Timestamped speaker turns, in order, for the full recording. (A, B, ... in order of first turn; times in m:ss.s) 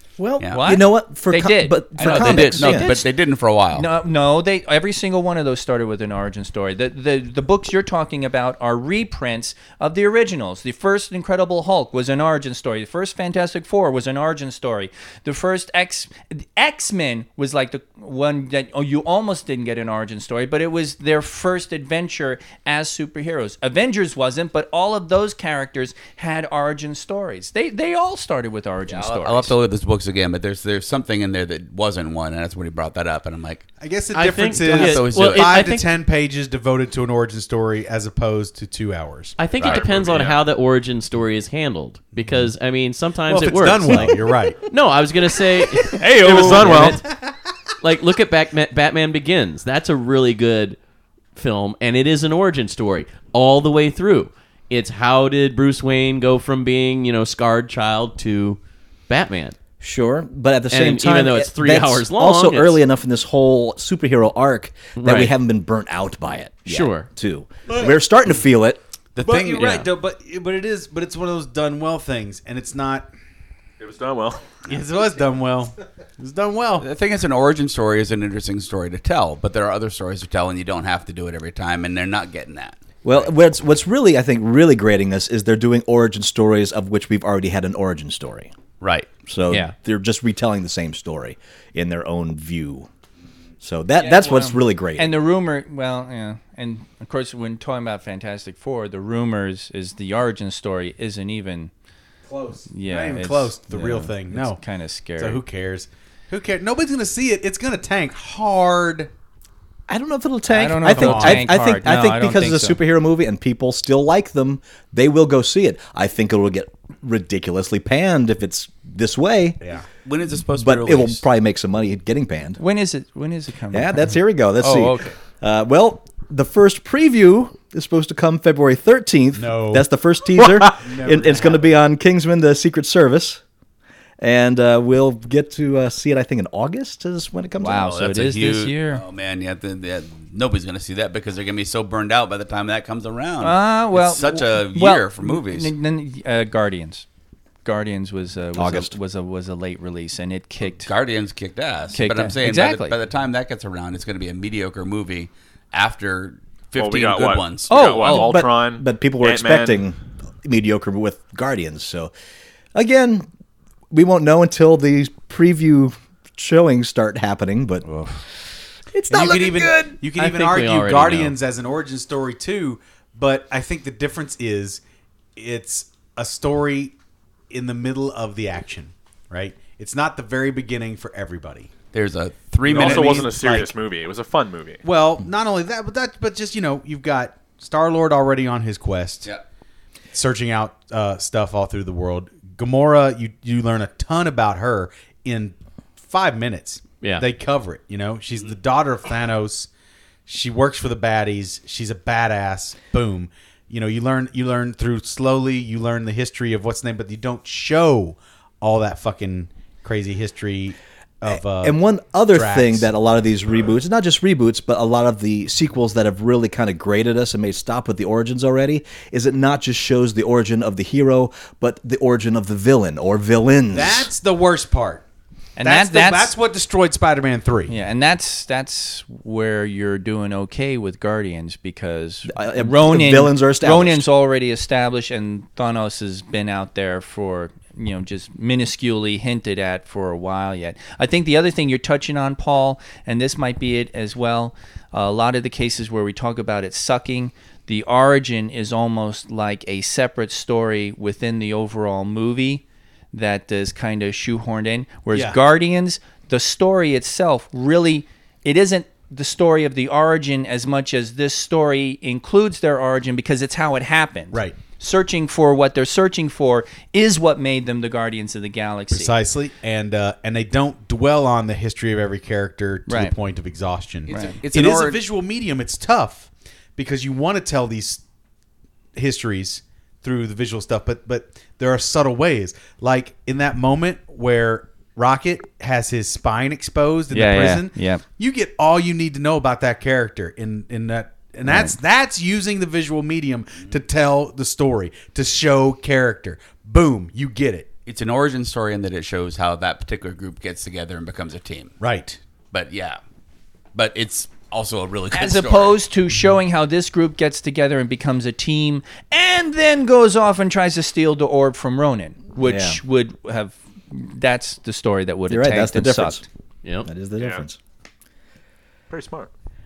0:00.2-0:03.0 A
0:00.5-0:03.1 B
0:02.0-0:03.9 C
0:03.7-0:29.6 B
0:28.9-0:33.7 C
0:33.8-0:39.4 D
0:34.1-0:35.9 E
0:34.6-0:35.6 C
0:39.4-0:47.0 E
0:39.6-0:39.9 C
0:39.6-0:40.4 F
0:43.3-0:44.6 D
0:46.0-0:47.0 F
0:46.2-0:46.4 B
0:47.0-0:47.3 D
0:47.8-0:50.8 E
0:51.4-0:59.6 E
0:59.8-1:08.8 A
1:00.7-1:02.8 E
1:05.0-1:05.3 E
1:06.7-1:07.1 E
1:09.2-1:09.9 C
1:09.2-1:13.1 D
1:13.8-1:14.6 F
1:14.6-1:16.9 D
1:16.8-1:23.3 C
1:23.0-1:28.5 A
1:28.8-1:29.1 C
1:29.3-1:32.9 A
1:33.6-1:35.2 A
1:34.0-1:41.7 B
1:42.3-1:44.6 D
1:42.7-1:45.4 B
1:45.2-1:49.1 D
1:49.9-1:59.6 A
1:50.5-1:52.8 B
1:50.9-1:51.5 D
2:00.0-2:01.2 C
2:00.6-2:02.6 A
2:02.6-2:05.1 B
2:03.7-2:13.4 A
2:09.4-2:09.8 D
2:10.6-2:11.6 D
2:14.2-2:18.0 A
2:17.6-2:19.0 B
2:17.9-2:25.7 C
2:23.4-2:27.0 B
2:27.6-2:30.9 B
2:28.6-2:29.0 A
2:30.8-2:37.7 C
2:31.9-2:33.0 B
2:36.8-2:39.9 F
2:37.7-2:38.4 B
2:38.1-2:42.1 A
2:42.7-2:43.3 A
2:43.9-2:47.9 A
2:48.9-2:50.0 A
2:49.1-2:54.8 D
2:50.2-2:51.4 E
2:55.4-2:57.0 D
2:57.5-3:01.7 D
3:01.9-3:03.3 C
3:02.6-3:03.7 D
3:02.7-3:04.8 F
3:04.8-3:09.3 D
3:10.1-3:19.7 D
3:20.3-3:31.8 D
3:31.3-3:44.1 A
3:32.3-3:32.9 D
3:43.7-3:45.0 D
3:45.6-3:46.4 B
3:45.6-3:47.7 D
3:47.7-4:29.2 B
3:52.3-3:54.1 A
4:15.1-4:15.4 D
4:24.3-4:24.6 D
4:28.9-4:38.0 D
4:32.9-4:33.2 B
4:34.1-4:35.0 C
4:34.1-4:34.4 B
4:39.0-4:57.7 D
4:47.1-4:48.0 B
4:51.5-4:51.7 B
4:57.9-5:01.7 C
5:01.8-5:02.2 D
5:02.5-5:03.0 C
5:03.8-5:05.8 C
5:05.1-5:16.2 B
5:12.4-5:12.8 A
5:15.3-5:16.2 A
5:16.6-5:16.9 E
5:16.8-5:17.6 A
5:17.2-5:17.4 F
5:18.9-5:19.3 F